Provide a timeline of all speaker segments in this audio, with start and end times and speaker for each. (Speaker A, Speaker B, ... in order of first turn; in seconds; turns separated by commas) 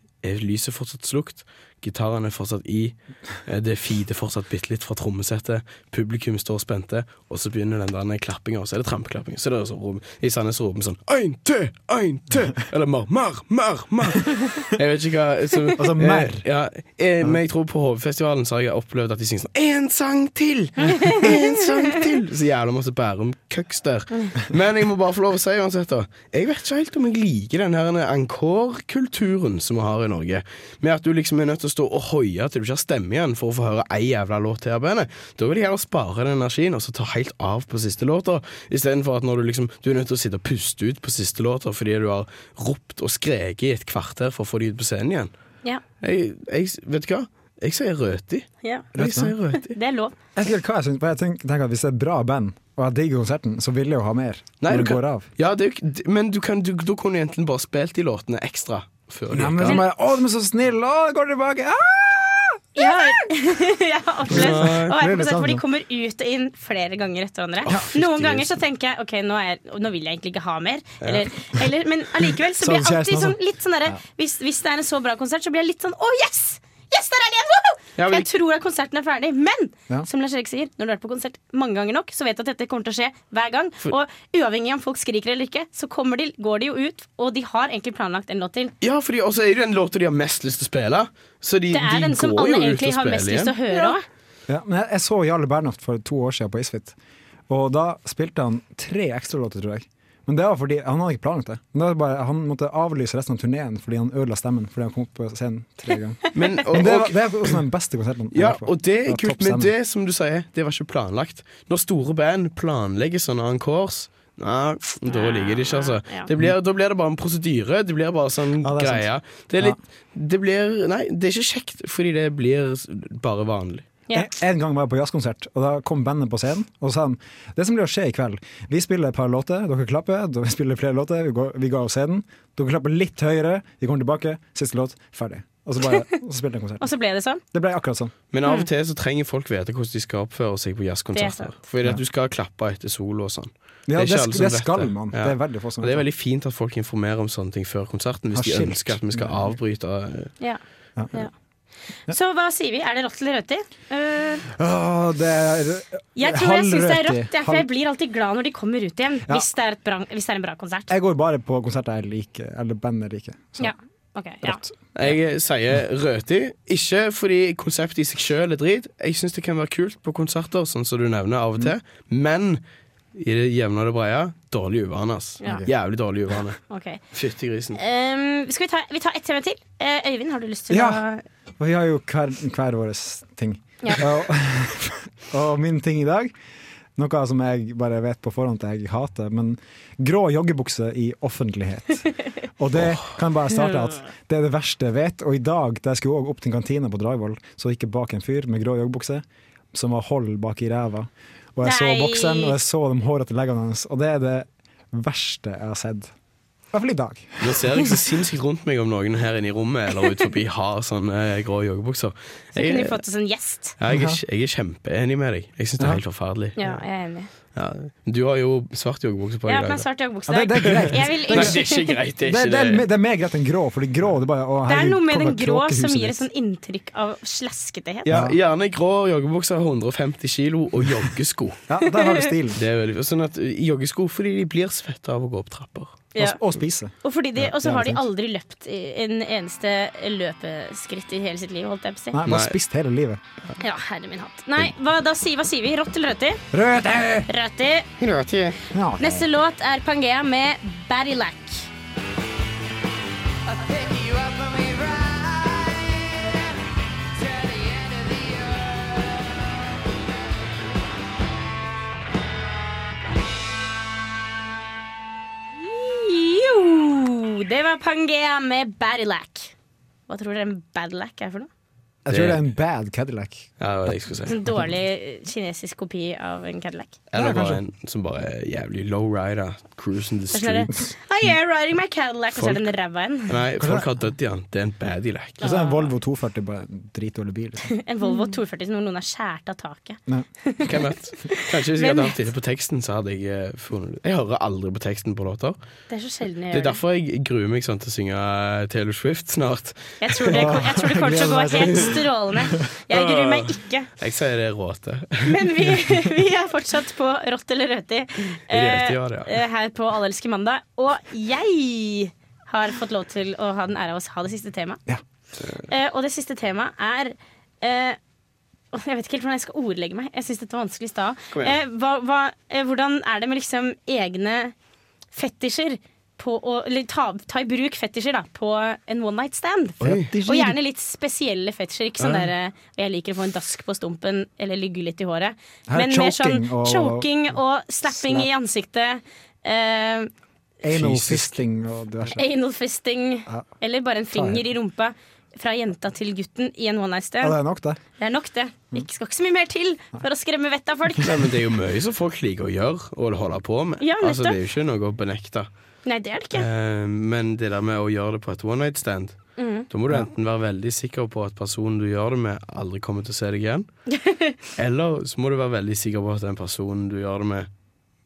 Speaker A: 0.2-45.3, Speaker B: 15.8-16.4, Speaker A: 46.0-49.8, Speaker C: 48.6-48.9, Speaker B: 48.9-49.3, Speaker C: 49.7-50.1, Speaker B: 50.4-55.3, Speaker A: 54.6-59.8, Speaker B: 59.3-63.0, Speaker C: 62.8-88.7, Speaker B: 64.3-65.6, Speaker A: 64.3-64.9, Speaker A: 67.6-68.6, Speaker B: 72.6-74.0, Speaker A: 78.0-78.3, Speaker A: 88.8-94.0, Speaker C: 91.7-94.0, Speaker B: 94.5-97.0, Speaker B: 97.5-109.7, Speaker A: 106.3-107.6, Speaker A: 108.3-123.9, Speaker C: 115.1-116.3, Speaker B: 118.6-119.1, Speaker B: 124.1-136.9, Speaker C: 136.8-137.4, Speaker B: 137.5-138.1, Speaker A: 138.3-150.3, Speaker C: 141.1-141.5, Speaker B: 143.9-146.1, Speaker B: 148.3-149.6, Speaker B: 151.0-151.2, Speaker C: 152.1-154.4, Speaker B: 154.5-157.7, Speaker C: 156.2-160.9, Speaker B: 160.9-163.7, Speaker C: 163.6-164.6, Speaker B: 164.4-165.1, Speaker A: 164.9-172.6, Speaker A: 173.2-177.8, Speaker B: 175.4-175.7, Speaker C: 176.7-177.0, Speaker C: 177.8-181.2, Speaker B: 180.7-181.0, Speaker B: 181.6-186.3, Speaker B: 187.0-206.1, Speaker C: 201.6-202.6, Speaker B: 206.7-207.6, Speaker A: 207.4-213.0, Speaker C: 212.6-213.8, Speaker A: 213.8-216.8, Speaker B: 213.9-214.2, Speaker C: 216.6-217.3, Speaker A: 217.5-219.9, Speaker C: 219.5-221.9, Speaker B: 220.3-226.2, Speaker A: 220.6-222.9, Speaker C: 224.7-228.1, Speaker A: 228.1-231.6, Speaker B: 228.1-228.4, Speaker B: 231.7-232.6, Speaker C: 232.0-232.3, Speaker A: 232.6-236.0, Speaker C: 236.1-236.4, Speaker B: 236.2-238.0, Speaker C: 237.0-242.2, Speaker B: 242.1-243.2, Speaker A: 242.3-242.6, Speaker C: 243.6-246.4, Speaker B: 246.5-247.3, Speaker C: 247.3-248.1, Speaker B: 248.7-249.3, Speaker C: 249.0-251.7, Speaker C: 265.6-269.5, Speaker C: 270.1-271.5, Speaker B: 272.1-273.5, Speaker A: 272.1-272.4, Speaker A: 273.6-274.4, Speaker C: 274.3-277.0, Speaker A: 277.1-280.8, Speaker B: 277.2-277.6, Speaker C: 280.3-283.4, Speaker A: 282.4-282.6, Speaker A: 283.3-285.4, Speaker B: 283.6-283.9, Speaker C: 285.4-285.9, Speaker B: 285.4-287.7, Speaker C: 287.7-290.7, Speaker A: 290.6-295.6, Speaker C: 291.3-292.1, Speaker C: 295.9-296.8, Speaker A: 296.5-300.6, Speaker C: 300.0-303.9, Speaker B: 300.3-302.0, Speaker A: 302.9-305.5, Speaker C: 305.3-314.8, Speaker A: 308.5-309.3, Speaker C: 315.7-318.0, Speaker C: 318.7-324.5, Speaker C: 325.1-340.1, Speaker B: 329.8-330.6, Speaker A: 329.8-330.1, Speaker A: 332.0-332.3, Speaker B: 335.7-337.1, Speaker B: 337.9-338.3, Speaker B: 340.6-342.2, Speaker A: 340.7-341.4, Speaker C: 342.1-347.4, Speaker B: 344.1-344.4, Speaker B: 347.2-347.8, Speaker C: 348.0-351.1, Speaker A: 351.0-355.5, Speaker C: 353.8-354.4, Speaker C: 355.9-356.5, Speaker A: 356.3-363.7, Speaker C: 359.4-359.7, Speaker C: 364.0-364.4, Speaker A: 364.6-367.5